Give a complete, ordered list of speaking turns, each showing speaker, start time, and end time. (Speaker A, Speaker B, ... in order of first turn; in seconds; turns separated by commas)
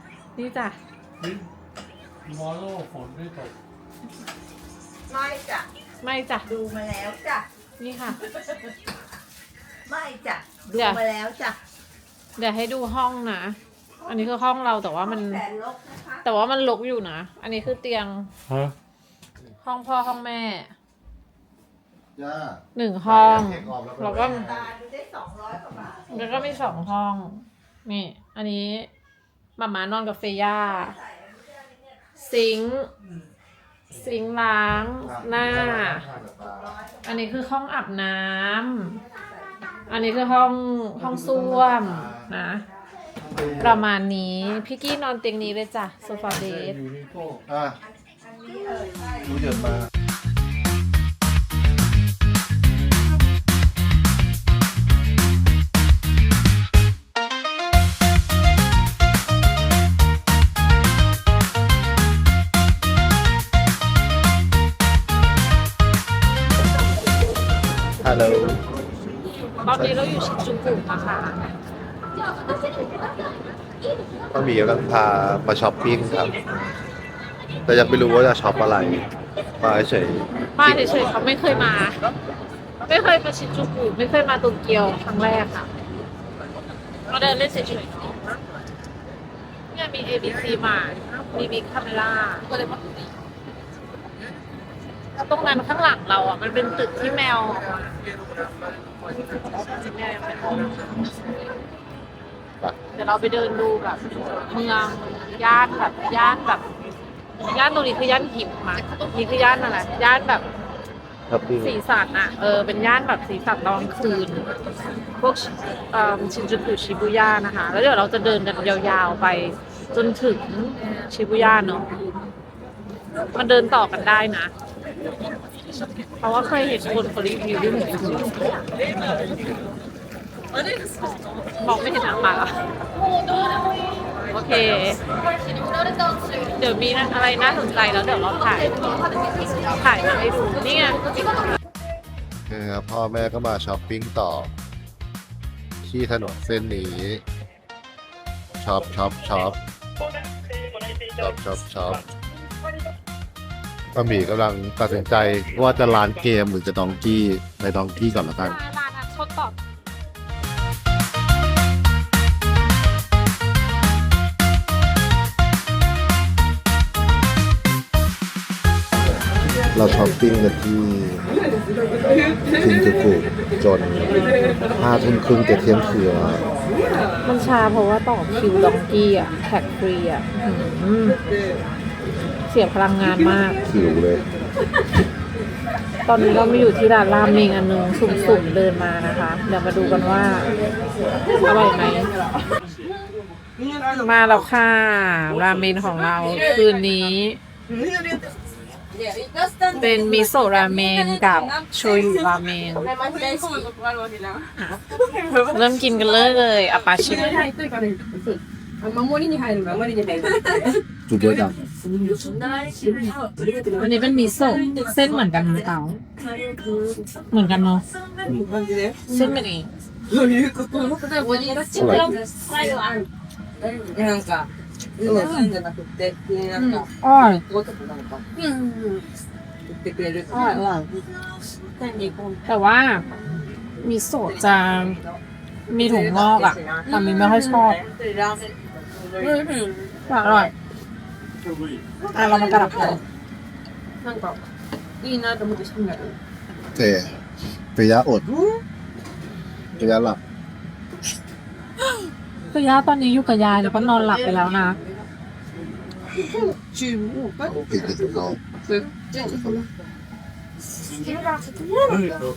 Speaker A: 0.4-0.8, Speaker B: 1.2-1.5, Speaker B: 2.2-3.5, Speaker C: 5.1-5.7, Speaker A: 6.0-6.5, Speaker C: 6.5-7.5, Speaker A: 7.8-8.2, Speaker C: 9.9-11.6, Speaker A: 10.7-11.0, Speaker A: 12.4-15.4, Speaker C: 15.0-16.3, Speaker A: 16.2-18.3, Speaker B: 18.5-18.8, Speaker A: 19.6-20.7, Speaker D: 22.2-24.7, Speaker A: 22.8-24.5, Speaker C: 24.1-26.2, Speaker A: 26.1-28.9, Speaker A: 29.6-31.0, Speaker C: 30.7-31.4, Speaker A: 32.2-32.9, Speaker A: 33.9-36.1, Speaker D: 35.0-36.8, Speaker A: 37.0-39.0, Speaker A: 39.9-42.6, Speaker B: 41.0-41.4, Speaker D: 41.3-42.3, Speaker D: 43.3-43.8, Speaker A: 43.6-46.8, Speaker B: 46.2-47.4, Speaker D: 47.5-47.8, Speaker C: 48.2-49.4, Speaker D: 49.2-49.9, Speaker D: 68.0-68.6, Speaker A: 69.7-71.5, Speaker D: 69.8-70.1, Speaker D: 74.3-76.8, Speaker D: 77.7-79.1, Speaker D: 79.6-81.1, Speaker A: 80.5-82.0, Speaker A: 82.8-85.7, Speaker A: 87.1-88.2, Speaker A: 89.7-92.5, Speaker A: 95.2-98.0, Speaker A: 99.3-101.2, Speaker A: 103.0-106.6, Speaker A: 107.4-110.5, Speaker D: 111.3-111.8, Speaker A: 111.6-114.5, Speaker A: 115.2-121.9, Speaker A: 123.3-124.5, Speaker A: 126.2-128.6, Speaker A: 131.6-132.6, Speaker A: 134.2-135.0, Speaker A: 136.2-139.0, Speaker A: 139.6-141.1, Speaker D: 142.5-144.5, Speaker D: 145.8-147.2, Speaker D: 148.6-149.6, Speaker D: 151.1-152.1, Speaker D: 153.9-158.6, Speaker A: 158.4-159.6, Speaker D: 169.7-171.3, Speaker D: 172.6-176.5, Speaker A: 177.2-181.2, Speaker A: 182.5-183.6, Speaker D: 183.7-184.2, Speaker A: 186.1-190.6, Speaker E: 188.1-188.4, Speaker E: 191.0-194.5, Speaker A: 191.4-192.1, Speaker A: 194.0-197.4, Speaker E: 196.0-196.9, Speaker E: 197.7-210.9, Speaker A: 199.8-202.9, Speaker A: 205.5-207.5, Speaker D: 211.1-211.6, Speaker E: 211.7-217.3, Speaker A: 213.8-216.0, Speaker A: 217.3-217.8, Speaker E: 218.1-219.5, Speaker A: 219.1-219.7, Speaker E: 220.1-223.1, Speaker A: 221.2-222.2, Speaker D: 221.7-222.1, Speaker E: 223.6-229.1, Speaker D: 225.1-225.3, Speaker A: 225.1-225.5, Speaker A: 226.5-227.4, Speaker E: 229.7-232.5, Speaker A: 230.3-230.9, Speaker A: 232.5-233.1, Speaker A: 233.8-235.0, Speaker E: 234.2-240.5, Speaker A: 235.7-237.8, Speaker A: 240.1-240.5, Speaker E: 241.5-243.0, Speaker A: 242.1-243.0, Speaker E: 244.0-244.4, Speaker E: 245.0-246.2, Speaker D: 246.7-247.2, Speaker D: 247.8-248.3, Speaker D: 249.8-250.2, Speaker A: 252.5-254.8, Speaker E: 253.6-254.9, Speaker E: 256.1-257.8, Speaker D: 257.4-258.4, Speaker E: 258.6-259.7, Speaker E: 260.8-262.2